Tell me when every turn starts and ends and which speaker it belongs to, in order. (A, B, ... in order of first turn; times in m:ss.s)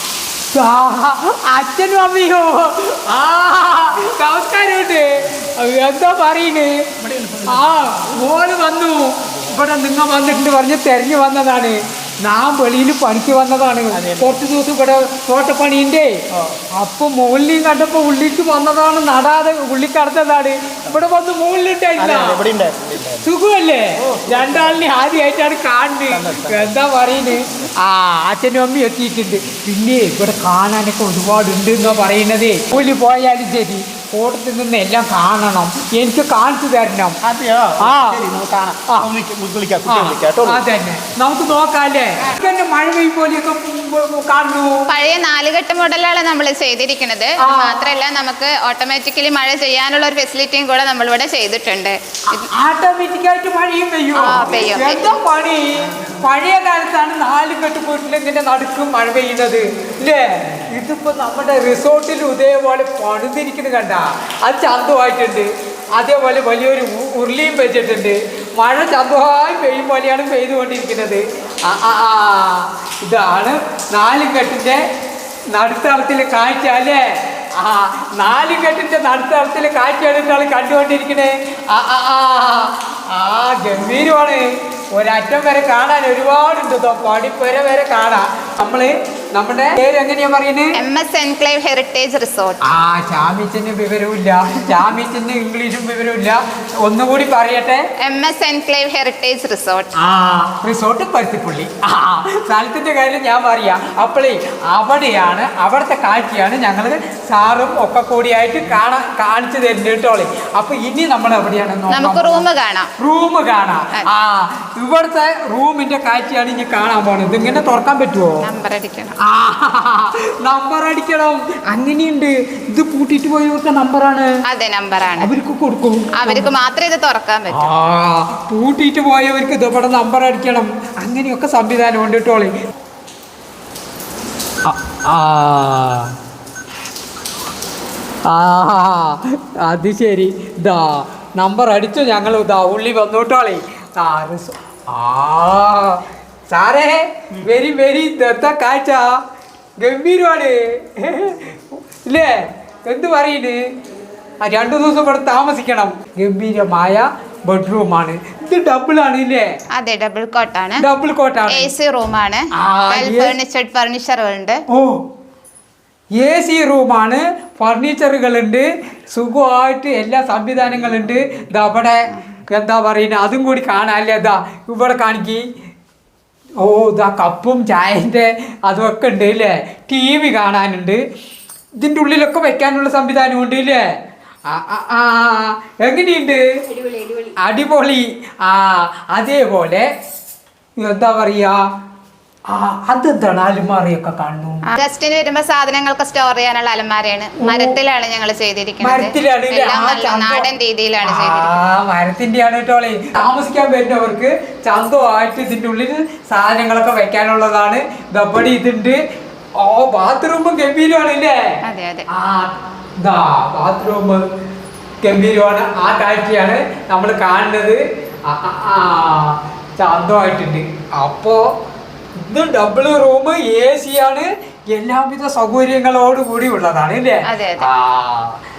0:00.5-0:06.8 A
0:07.0-0:08.1 B
0:07.4-0:16.2 A
0:13.9-0:14.4 B
0:16.8-0:22.4 A
0:22.0-0:23.3 B
0:23.2-0:37.2 A
0:24.0-0:24.8 B
0:26.1-0:26.7 B
0:37.2-0:40.6 B
0:37.8-0:38.2 A
0:38.9-0:39.1 A
0:39.9-0:44.9 A
0:44.9-0:52.5 C
0:47.4-0:47.9 A
0:52.5-1:14.8 A
0:54.2-0:55.2 C
1:15.5-1:30.8 A
1:30.8-1:32.6 C
1:32.6-1:37.8 A
1:38.0-1:39.9 C
1:40.0-1:52.4 A
1:51.9-1:52.9 C
1:53.0-1:58.4 A
1:58.4-1:59.2 C
1:59.2-2:04.3 A
2:04.5-2:05.3 C
2:05.2-2:06.5 A
2:06.2-2:07.7 C
2:07.5-2:12.5 A
2:14.7-2:16.1 A
2:18.3-2:29.2 A
2:29.8-2:31.6 A
2:32.1-2:32.4 A
2:32.9-2:33.6 A
2:34.4-2:39.5 A
2:39.7-2:40.8 C
2:40.8-2:41.7 A
2:41.5-2:44.6 C
2:42.5-2:43.4 A
2:44.7-2:45.0 A
2:46.2-2:55.4 A
2:56.6-3:01.0 A
3:01.8-3:03.8 A
3:04.5-3:06.4 A
3:06.7-3:07.3 C
3:07.4-3:09.9 A
3:10.8-3:11.6 A
3:12.5-3:14.7 A
3:14.7-3:21.6 C
3:17.4-3:17.8 A
3:18.8-3:20.5 A
3:21.0-3:29.0 A
3:29.6-3:31.4 A
3:31.6-3:32.1 C
3:32.1-3:34.2 A
3:35.0-3:41.4 A
3:42.2-3:48.4 A
3:47.3-3:47.7 C